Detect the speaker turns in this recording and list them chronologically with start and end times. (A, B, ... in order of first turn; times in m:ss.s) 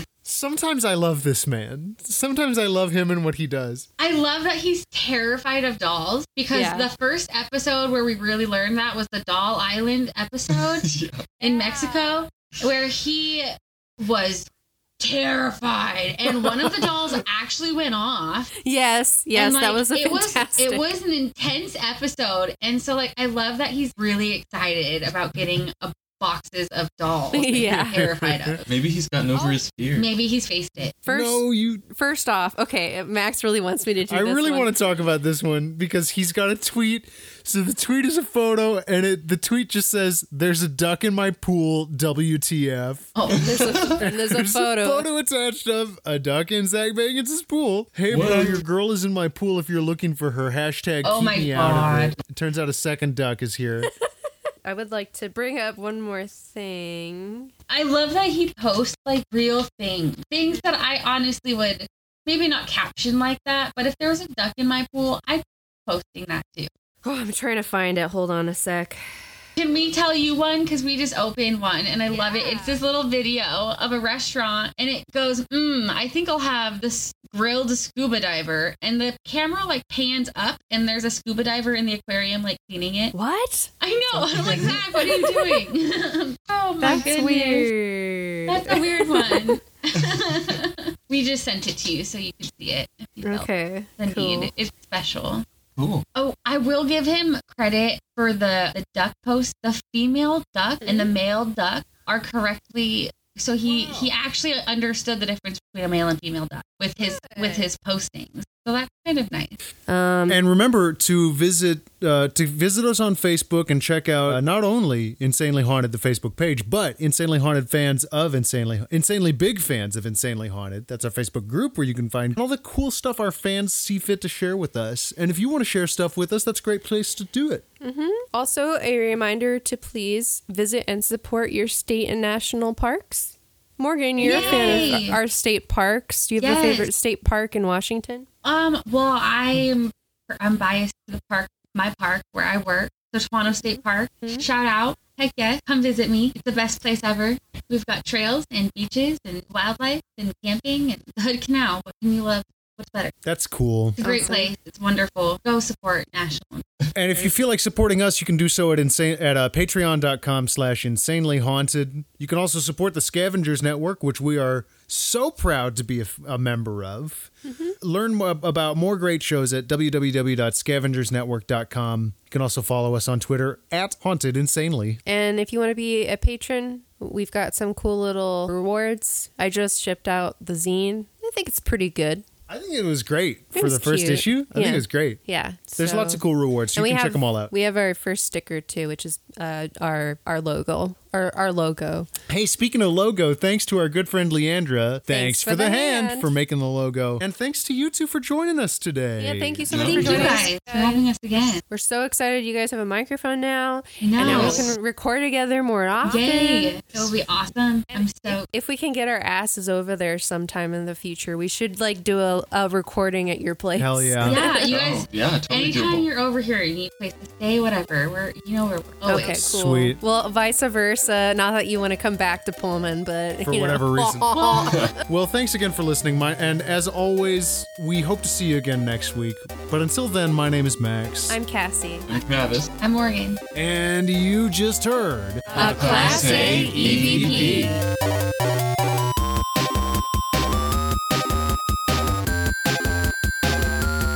0:00.2-0:03.9 A
0:04.0-0:10.9 B
0:06.5-0:06.9 C
0:10.5-0:11.3 D
0:11.4-0:14.5 B
0:11.4-0:12.2 C
0:15.0-0:18.5 B
0:18.6-0:20.8 C
0:19.3-0:28.8 B
0:27.3-0:28.0 C
0:27.7-0:28.6 A
0:28.7-0:30.1 D
0:29.9-0:31.0 B
0:31.0-0:34.7 C
0:31.1-0:31.8 A
0:34.1-0:43.1 A
0:43.1-0:43.7 B
0:43.3-0:44.0 D
0:43.4-0:45.1 C
0:44.0-0:53.9 A
0:48.1-0:48.6 D
0:51.0-0:52.2 B
0:54.6-0:57.5 C
0:57.7-1:06.7 B
1:07.0-1:09.0 C
1:09.6-1:23.1 B
1:12.1-1:12.8 C
1:23.1-1:25.6 C
1:23.8-1:27.7 B
1:24.4-1:24.7 A
1:26.8-1:29.6 C
1:28.5-1:33.5 B
1:33.2-1:34.5 C
1:34.0-1:35.4 B
1:35.8-1:36.0 D
1:36.1-1:49.6 B
1:40.8-1:41.1 C
1:43.7-1:44.1 C
1:47.0-1:47.6 C
1:49.9-1:50.4 C
1:50.3-2:07.6 A
2:07.8-2:18.2 C
2:14.2-2:15.2 B
2:14.3-2:14.8 A
2:16.4-2:16.9 B
2:18.4-2:33.1 B
2:33.2-2:34.0 A
2:34.0-2:36.6 B
2:34.0-2:34.5 C
2:36.9-2:55.0 A
2:47.4-2:47.8 C
2:55.0-3:02.2 C
3:02.5-3:05.2 A
3:03.5-3:06.2 C
3:05.8-3:07.5 A
3:06.7-3:12.1 C
3:12.3-3:20.5 A
3:15.1-3:16.3 C
3:19.2-3:21.0 C
3:19.7-3:20.4 D
3:19.8-3:21.6 B
3:21.7-3:26.8 C
3:24.0-3:24.7 B
3:24.2-3:24.7 A
3:26.0-3:28.5 B
3:27.9-3:34.6 C
3:33.8-3:34.4 A
3:34.2-3:39.4 B
3:34.4-3:36.1 D
3:39.0-3:44.9 C
3:39.2-3:40.0 A
3:43.4-3:51.4 A
3:44.6-3:45.0 D
3:51.3-3:52.1 C
3:52.1-3:52.7 D
3:52.8-3:53.4 B
3:53.5-3:57.7 A
3:55.5-3:57.3 C
3:55.5-3:57.8 B
3:55.6-3:57.8 D